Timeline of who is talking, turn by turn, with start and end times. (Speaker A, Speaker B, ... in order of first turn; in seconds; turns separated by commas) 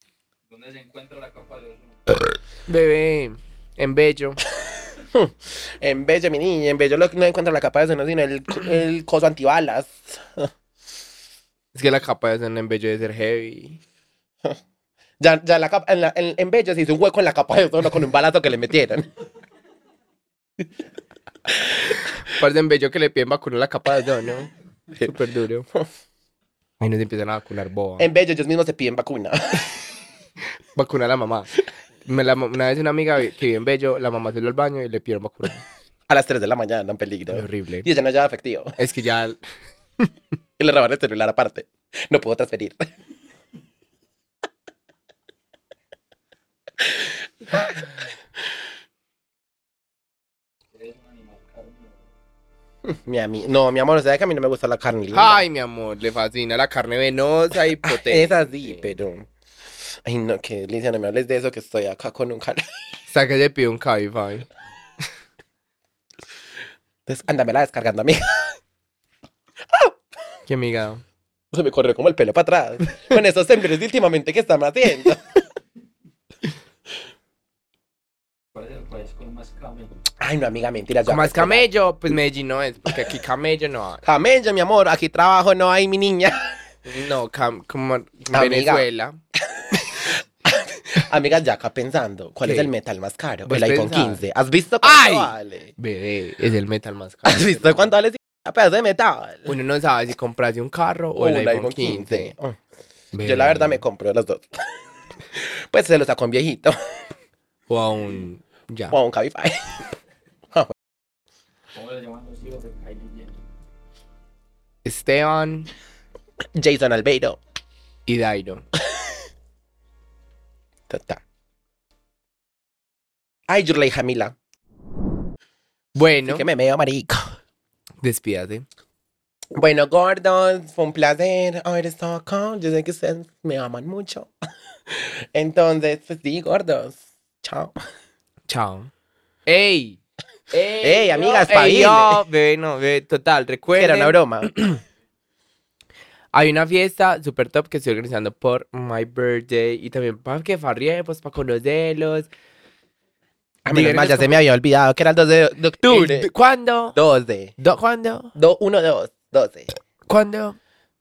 Speaker A: 0.5-2.0, Speaker B: 2.7-4.4, Speaker C: 5.0-10.5, Speaker B: 11.7-13.8, Speaker C: 15.2-19.1, Speaker B: 22.2-24.5, Speaker B: 25.0-25.7, Speaker B: 26.8-28.1, Speaker C: 28.0-29.7, Speaker B: 30.7-31.5, Speaker B: 32.0-35.6, Speaker C: 36.1-38.8, Speaker B: 37.3-37.9, Speaker B: 38.8-39.4, Speaker C: 40.6-42.9, Speaker C: 47.5-47.9, Speaker A: 50.7-52.1, Speaker C: 52.8-55.4, Speaker B: 55.1-58.5, Speaker C: 57.8-59.3, Speaker C: 60.0-62.6, Speaker B: 63.1-64.5, Speaker C: 67.0-68.6, Speaker B: 70.5-71.0, Speaker C: 71.5-75.4, Speaker A: 78.5-80.0, Speaker C: 80.2-81.7, Speaker B: 81.0-84.0, Speaker C: 84.0-86.6, Speaker B: 86.8-89.2, Speaker C: 88.3-88.8, Speaker C: 89.6-95.7, Speaker B: 92.5-92.7, Speaker B: 93.4-94.2, Speaker B: 94.8-97.9, Speaker C: 97.2-99.5, Speaker B: 99.5-102.3, Speaker C: 101.2-102.6, Speaker B: 103.1-103.8, Speaker C: 103.2-104.7, Speaker C: 105.3-107.0, Speaker B: 107.7-109.0, Speaker C: 108.9-109.8, Speaker A: 111.7-113.3, Speaker B: 114.8-115.7, Speaker C: 116.5-117.4, Speaker B: 118.1-118.6, Speaker C: 120.9-121.2, Speaker C: 123.5-124.3, Speaker B: 125.9-126.5, Speaker C: 126.3-127.3, Speaker B: 128.0-128.6, Speaker C: 129.5-134.3, Speaker C: 134.9-137.8, Speaker B: 138.5-138.9, Speaker B: 139.4-140.0, Speaker B: 140.5-144.7, Speaker C: 140.8-142.2, Speaker C: 143.7-144.8, Speaker B: 146.3-152.3, Speaker C: 153.6-156.3, Speaker B: 153.7-154.4, Speaker B: 155.8-156.9, Speaker C: 156.9-157.5, Speaker B: 157.6-158.3, Speaker C: 158.3-159.7, Speaker B: 160.1-160.6